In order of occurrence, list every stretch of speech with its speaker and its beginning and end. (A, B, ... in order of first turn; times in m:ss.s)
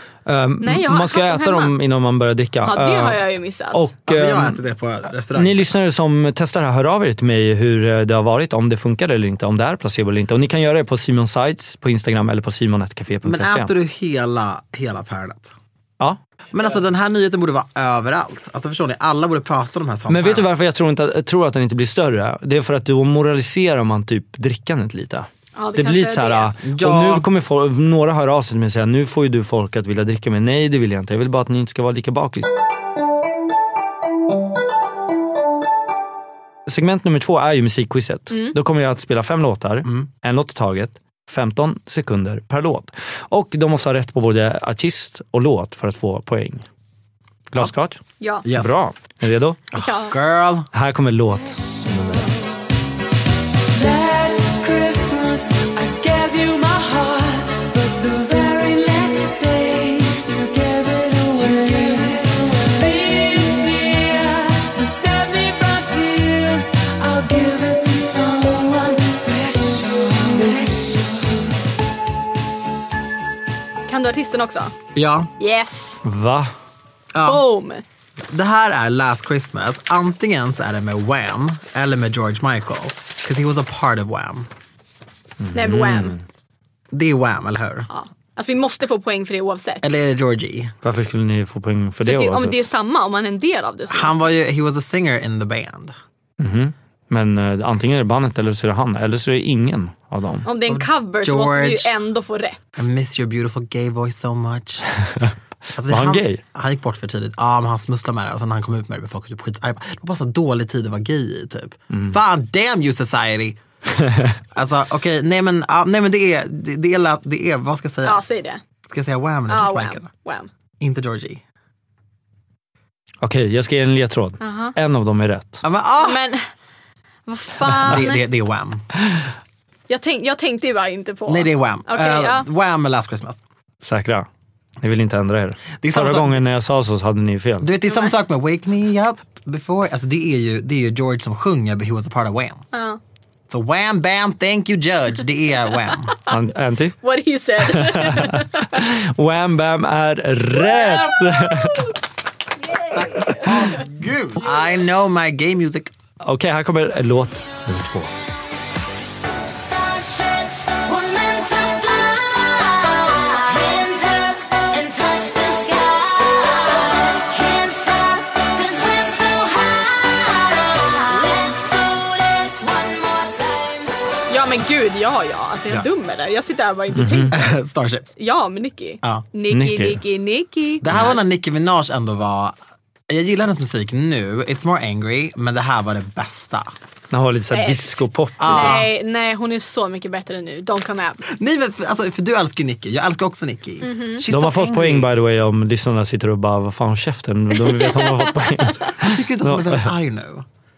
0:00.3-0:04.6 A
0:00.6-0:01.8 B
0:02.6-0:03.9 B
0:04.1-0:05.7 C
0:05.3-0:13.7 A
0:13.2-0:15.5 C
0:16.5-0:20.5 C
0:20.1-0:32.5 A
0:25.6-0:26.5 B
0:26.6-0:27.3 C
0:36.7-0:46.6 A
0:38.3-0:38.6 B
0:47.5-0:49.6 A
0:48.2-0:48.5 B
0:48.4-0:48.7 C
0:49.7-0:50.7 C
0:49.8-0:50.2 B
0:50.7-0:52.4 A
0:53.7-1:11.6 D
1:13.9-1:14.8 B
1:15.0-1:15.3 C
1:15.4-1:16.0 B
1:16.0-1:16.5 A
1:17.1-1:17.4 C
1:17.2-1:17.8 B
1:18.3-1:24.5 C
1:25.4-1:26.2 A
1:25.5-1:26.2 B
1:26.9-1:27.9 C
1:27.9-1:29.8 B
1:29.8-1:30.7 C
1:30.8-1:32.6 A
1:32.0-1:34.3 B
1:33.9-1:36.0 C
1:36.4-1:40.5 A
1:40.5-1:42.8 B
1:40.6-1:42.0 C
1:42.8-1:53.6 C
1:45.8-1:46.4 A
1:54.0-1:54.4 A
1:54.5-1:58.2 C
1:58.0-1:58.6 B
1:58.9-2:00.1 C
1:59.5-2:00.5 B
2:00.8-2:01.4 C
2:03.2-2:05.6 A
2:04.4-2:04.8 B
2:05.6-2:06.2 C
2:06.0-2:06.4 B
2:07.3-2:08.2 B
2:07.8-2:08.9 C
2:09.9-2:12.5 B
2:11.3-2:13.4 C
2:13.8-2:14.3 A
2:14.8-2:17.7 A
2:15.8-2:16.5 C
2:17.6-2:22.6 C
2:17.9-2:18.2 B
2:22.7-2:23.0 B
2:23.5-2:26.1 C
2:26.1-2:26.4 B
2:26.3-2:27.0 A
2:27.0-2:28.7 B
2:27.6-2:31.9 A
2:30.8-2:31.9 B
2:32.6-2:33.9 B
2:32.9-2:35.9 C
2:36.2-2:38.1 A
2:39.4-2:54.1 E
2:54.3-2:57.5 B
2:56.9-2:57.4 A
2:57.3-2:58.1 C
2:58.2-3:01.2 B
2:59.5-3:00.0 A
3:00.8-3:02.6 C
3:03.1-3:06.7 C
3:07.1-3:08.8 A
3:07.5-3:07.9 B
3:08.4-3:08.9 C
3:08.5-3:11.2 B
3:11.3-3:15.1 C
3:13.8-3:14.2 B
3:14.3-3:19.9 A
3:17.6-3:18.9 B
3:19.0-3:20.5 C